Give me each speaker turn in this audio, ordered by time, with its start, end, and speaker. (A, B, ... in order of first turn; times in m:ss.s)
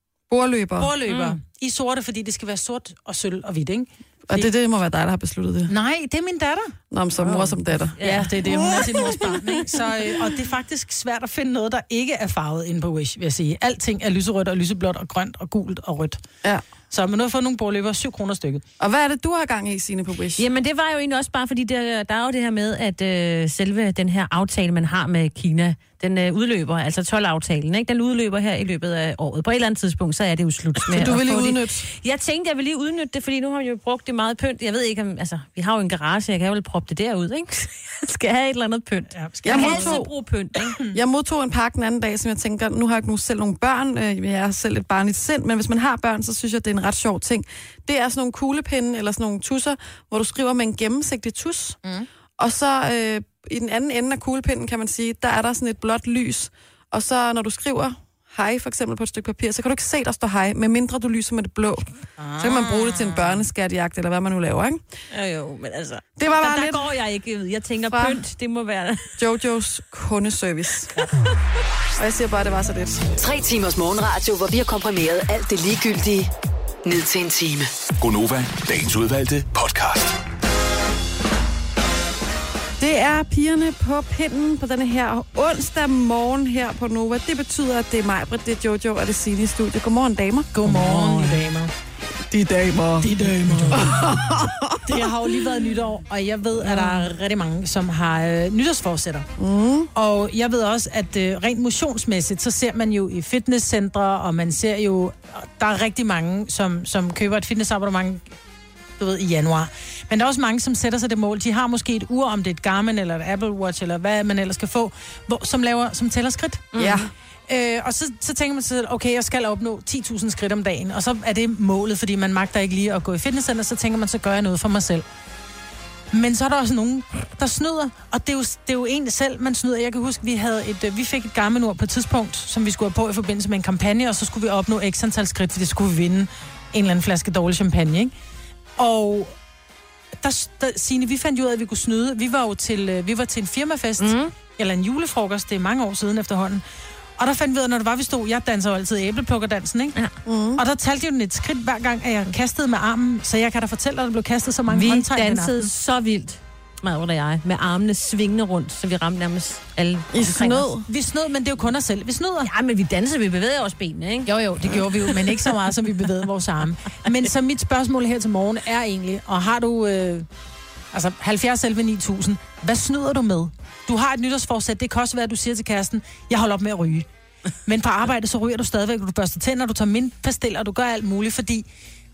0:00.3-0:00.9 A
0:00.8-0:04.5 B
0:01.1-0:01.4 C
0:04.3-0:05.7 A
0:05.7-0:06.7 B
0:06.9-0:08.0 A
0:08.0-0:08.4 C
0:08.0-0:16.2 B
0:08.5-0:09.2 A
0:16.9-0:18.6 B
0:18.8-0:20.4 A
0:20.4-0:40.8 C
0:30.9-0:31.8 A
0:39.1-0:40.0 B
0:39.4-0:40.1 A
0:40.9-0:51.8 A
0:52.4-1:01.9 A
1:02.2-1:03.4 B
1:02.4-1:04.8 A
1:05.1-1:09.1 C
1:06.2-1:06.8 A
1:07.9-1:08.2 A
1:09.2-1:10.9 A
1:12.0-1:13.0 A
1:13.2-1:16.3 D
1:16.8-1:17.7 D
1:18.0-1:20.2 E
1:22.8-1:31.4 A
1:30.5-1:31.7 B
1:32.3-1:33.1 A
1:33.0-1:34.1 B
1:33.7-1:35.0 A
1:34.8-1:39.3 B
1:39.4-1:39.9 A
1:39.9-1:48.3 B
1:49.0-1:56.7 B
1:56.7-1:57.1 C
1:56.8-1:57.1 A
1:57.5-2:05.0 B
2:06.1-2:18.1 B
2:18.8-2:19.4 B
2:20.2-2:26.6 B
2:24.0-2:24.3 C
2:27.2-2:30.0 B
2:30.2-2:30.6 A
2:30.6-2:35.7 B
2:34.7-2:40.7 C
2:40.1-2:40.9 A
2:40.9-2:42.5 B
2:42.4-2:45.5 C
2:44.2-2:50.3 B
2:50.9-2:57.1 B
2:57.6-3:01.7 B